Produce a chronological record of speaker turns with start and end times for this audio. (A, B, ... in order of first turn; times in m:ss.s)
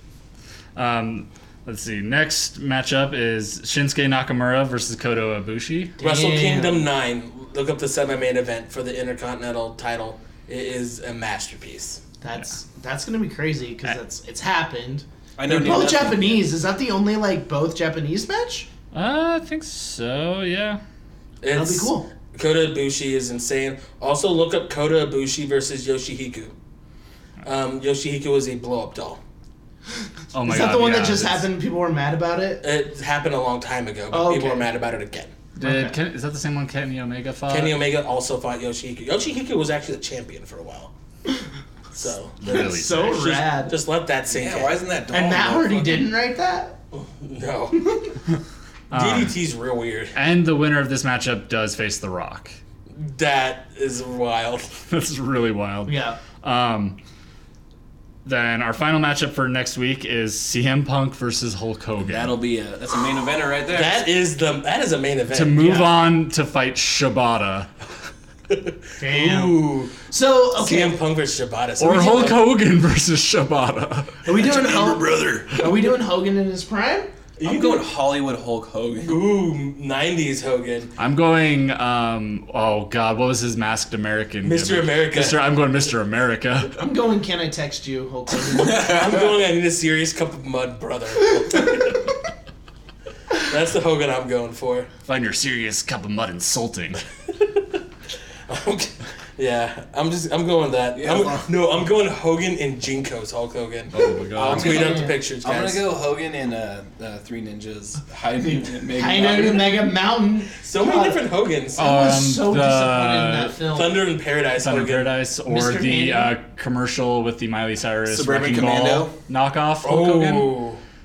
0:00.8-0:06.0 A
0:06.0-0:06.9 B
0:06.0-0:12.0 C
0:12.2-0:18.7 B
0:15.4-0:16.5 D
0:18.9-0:20.8 A
0:21.4-0:26.6 C
0:21.6-0:22.1 B
0:27.4-0:29.2 C
0:30.3-0:31.4 A
0:30.4-0:32.6 B
0:32.6-0:35.3 C
0:34.1-0:34.7 B
0:35.6-0:36.0 B
0:35.6-0:37.8 A
0:37.5-0:40.9 C
0:42.0-0:43.6 A
0:42.0-0:42.3 C
0:42.4-0:43.8 B
0:43.7-0:44.8 C
0:44.3-0:46.1 D
0:45.1-0:46.8 B
0:46.9-0:47.9 C
0:48.9-0:49.4 A
0:48.9-0:50.1 C
0:50.2-0:52.6 A
0:52.9-0:54.7 C
0:54.9-0:57.0 A
0:55.9-0:56.2 B
0:58.2-1:02.4 A
1:02.0-1:04.0 D
1:03.7-1:05.6 C
1:05.3-1:07.7 A
1:05.6-1:05.9 B
1:08.5-1:10.0 C
1:09.0-1:11.0 B
1:10.6-1:12.4 C
1:11.8-1:14.2 A
1:14.2-1:17.1 B
1:14.3-1:15.5 D
1:17.4-1:17.9 C
1:17.4-1:19.2 D
1:19.0-1:20.9 C
1:21.0-1:26.8 A
1:24.4-1:25.4 C
1:26.8-1:29.0 B
1:28.5-1:29.4 D
1:28.8-1:32.1 C
1:33.4-1:34.9 C
1:35.1-1:37.0 A
1:38.5-1:45.8 C
1:40.9-1:41.5 D
1:43.9-1:45.0 A
1:44.4-1:45.1 B
1:44.5-1:49.9 D
1:49.0-1:51.2 B
1:50.6-1:51.8 C
1:51.8-1:53.6 A
1:51.8-1:54.0 B
1:53.7-1:55.1 C
1:54.6-2:00.5 A
1:55.5-1:56.4 B
1:58.1-1:59.1 D
1:59.8-2:00.8 C